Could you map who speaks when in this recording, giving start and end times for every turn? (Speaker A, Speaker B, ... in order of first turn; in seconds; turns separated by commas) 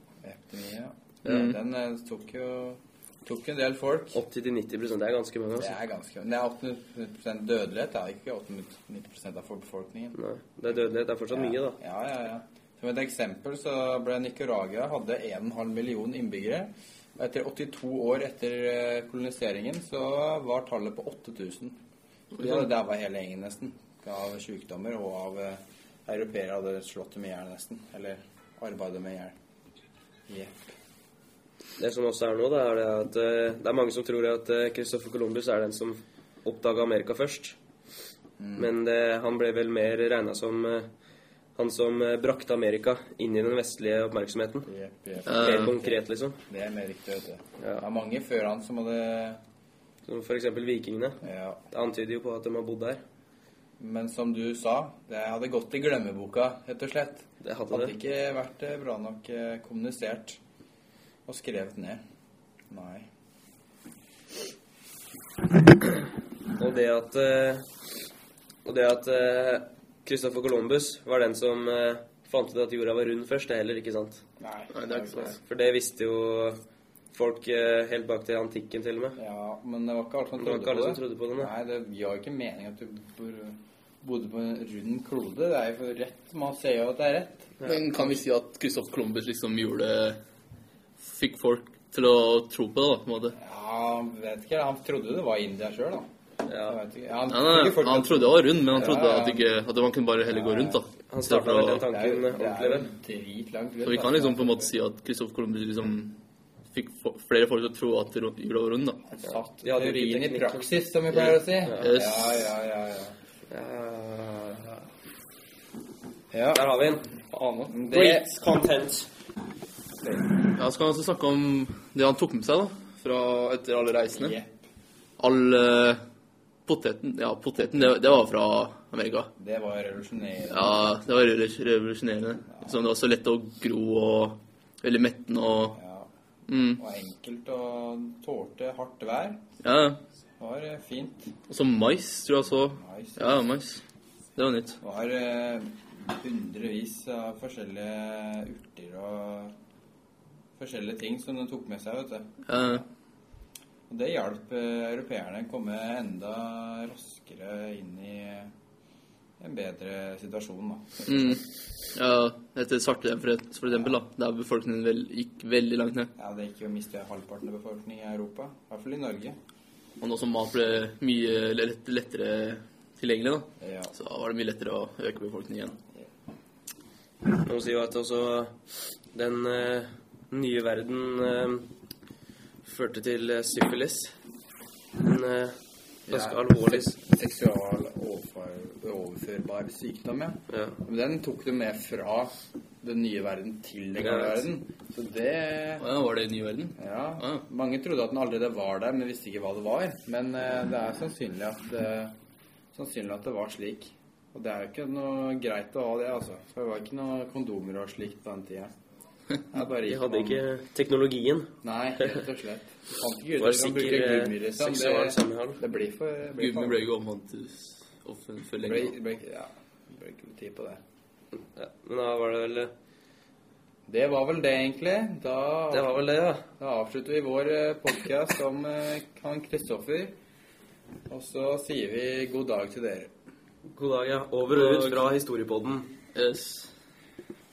Speaker A: 0.2-4.2, Speaker B: 1.2-1.6, Speaker C: 4.1-5.8, Speaker A: 5.6-10.2, Speaker C: 10.1-11.8, Speaker A: 11.3-21.8, Speaker A: 22.3-29.3, Speaker B: 22.4-22.7, Speaker A: 30.3-30.6, Speaker C: 31.8-37.6, Speaker A: 38.4-38.7, Speaker C: 38.6-40.9, Speaker C: 41.5-44.7, Speaker A: 44.6-49.4, Speaker B: 45.2-45.7, Speaker C: 45.4-46.4, Speaker C: 47.6-47.8, Speaker C: 50.0-51.2, Speaker A: 51.2-51.6, Speaker C: 51.7-53.0, Speaker A: 53.8-60.4, Speaker C: 57.4-57.9, Speaker A: 61.2-62.0, Speaker A: 62.7-63.1, Speaker C: 66.6-67.6, Speaker C: 68.6-74.2, Speaker A: 74.4-75.4, Speaker B: 74.7-75.4, Speaker C: 75.4-76.6, Speaker C: 77.1-79.2, Speaker A: 79.2-87.5, Speaker C: 80.4-81.5, Speaker C: 87.6-87.8, Speaker B: 87.6-90.2, Speaker B: 91.0-93.3, Speaker A: 93.4-96.1, Speaker C: 96.4-96.8, Speaker A: 96.7-99.5, Speaker B: 97.3-101.9, Speaker A: 100.3-100.8, Speaker C: 101.1-102.9, Speaker A: 101.9-104.7, Speaker B: 103.8-106.2, Speaker B: 106.7-109.0, Speaker A: 109.1-113.2, Speaker C: 109.2-111.9, Speaker B: 111.8-112.4, Speaker C: 113.5-114.8, Speaker A: 116.3-116.7, Speaker C: 116.5-117.1, Speaker B: 117.3-117.9, Speaker A: 117.7-118.2, Speaker C: 117.9-119.1, Speaker A: 120.0-120.3, Speaker B: 120.5-124.4, Speaker A: 124.1-124.6, Speaker B: 125.2-126.0, Speaker B: 126.7-129.3, Speaker A: 129.4-131.0, Speaker B: 130.5-135.8, Speaker A: 135.7-136.1, Speaker B: 136.5-136.8, Speaker A: 136.8-139.4, Speaker B: 139.6-140.0, Speaker A: 140.4-141.3, Speaker B: 141.5-143.8, Speaker A: 142.7-143.5, Speaker B: 144.4-144.8, Speaker A: 144.8-149.5, Speaker A: 150.6-152.8, Speaker B: 152.4-152.8, Speaker A: 153.9-158.5, Speaker A: 159.4-161.4, Speaker B: 161.1-166.1, Speaker A: 166.2-169.4, Speaker B: 170.0-175.8, Speaker A: 173.6-173.9, Speaker C: 177.4-178.5, Speaker C: 179.1-181.7, Speaker C: 182.6-184.1, Speaker C: 185.0-185.6, Speaker C: 186.1-186.9, Speaker A: 186.1-195.8, Speaker C: 190.5-190.8, Speaker C: 194.0-194.5, Speaker B: 195.8-197.4, Speaker A: 196.8-202.1, Speaker A: 202.7-208.7, Speaker A: 209.5-210.4, Speaker C: 209.8-211.5, Speaker A: 211.6-216.8, Speaker C: 213.4-215.6, Speaker B: 216.4-218.9, Speaker A: 218.6-220.8, Speaker C: 221.5-222.7, Speaker A: 223.9-226.1, Speaker C: 225.7-226.4, Speaker A: 226.6-230.1, Speaker A: 231.1-233.1, Speaker C: 233.7-235.9, Speaker B: 234.5-235.0, Speaker B: 236.1-236.7